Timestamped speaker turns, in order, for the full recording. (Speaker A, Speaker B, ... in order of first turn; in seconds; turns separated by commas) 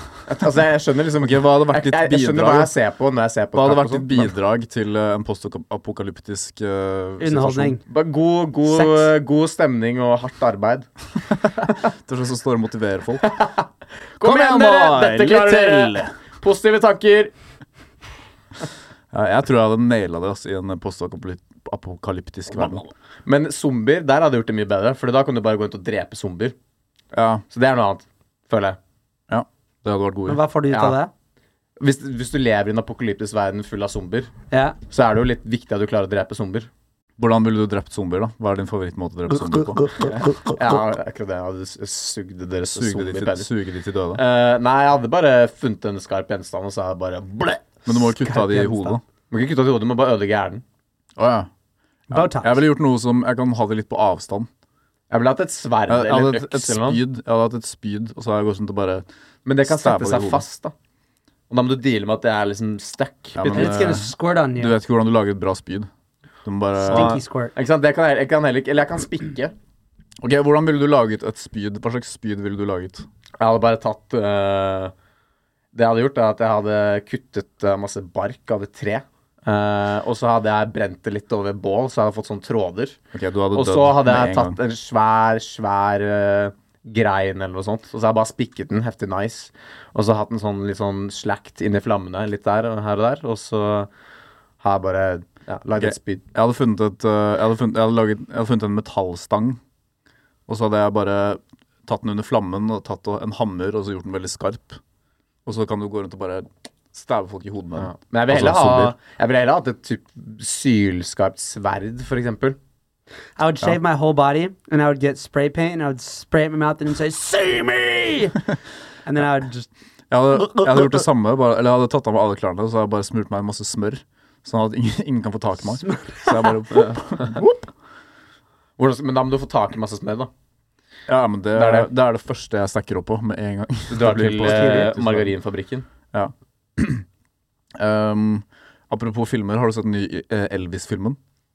Speaker A: 0.3-4.3, Speaker B: 1.2-2.7, Speaker B: 3.5-7.8, Speaker C: 7.2-7.8, Speaker A: 7.9-10.9, Speaker C: 8.7-9.1, Speaker B: 11.9-13.3, Speaker A: 13.2-13.6, Speaker A: 14.2-17.3, Speaker B: 14.2-16.1, Speaker B: 19.1-22.9, Speaker A: 22.5-26.5, Speaker B: 27.1-27.4, Speaker A: 27.5-28.8, Speaker B: 29.3-30.4, Speaker C: 30.3-31.1, Speaker A: 30.7-31.0, Speaker A: 31.8-34.3, Speaker C: 34.5-34.8, Speaker A: 34.9-36.7, Speaker B: 37.2-40.1, Speaker C: 39.7-40.5, Speaker A: 40.1-43.5, Speaker B: 42.7-44.2, Speaker A: 44.1-47.9, Speaker B: 47.9-49.0, Speaker C: 48.2-49.0, Speaker A: 49.3-50.6, Speaker B: 51.1-51.5, Speaker C: 52.1-52.6, Speaker B: 52.1-54.5, Speaker A: 55.1-57.0, Speaker B: 55.9-59.0, Speaker A: 59.5-60.7, Speaker B: 59.6-60.4, Speaker A: 61.5-64.0, Speaker B: 63.3-65.9, Speaker C: 63.5-64.7, Speaker B: 66.4-67.2, Speaker C: 66.9-67.5, Speaker A: 66.9-69.5, Speaker B: 70.2-73.0, Speaker A: 73.4-74.9, Speaker A: 75.7-83.0, Speaker B: 83.1-84.6, Speaker A: 83.5-93.9, Speaker A: 94.6-96.2, Speaker B: 95.8-99.6, Speaker B: 100.5-104.8, Speaker B: 105.5-108.9, Speaker A: 107.8-112.6, Speaker C: 113.4-118.4, Speaker C: 119.0-119.7, Speaker B: 120.1-127.7, Speaker C: 120.4-120.9, Speaker C: 125.8-126.3, Speaker A: 126.7-127.4, Speaker A: 128.8-130.3, Speaker B: 131.1-135.3, Speaker A: 131.5-131.9, Speaker A: 133.9-135.9, Speaker C: 134.4-134.9, Speaker B: 136.1-137.0, Speaker B: 137.8-141.2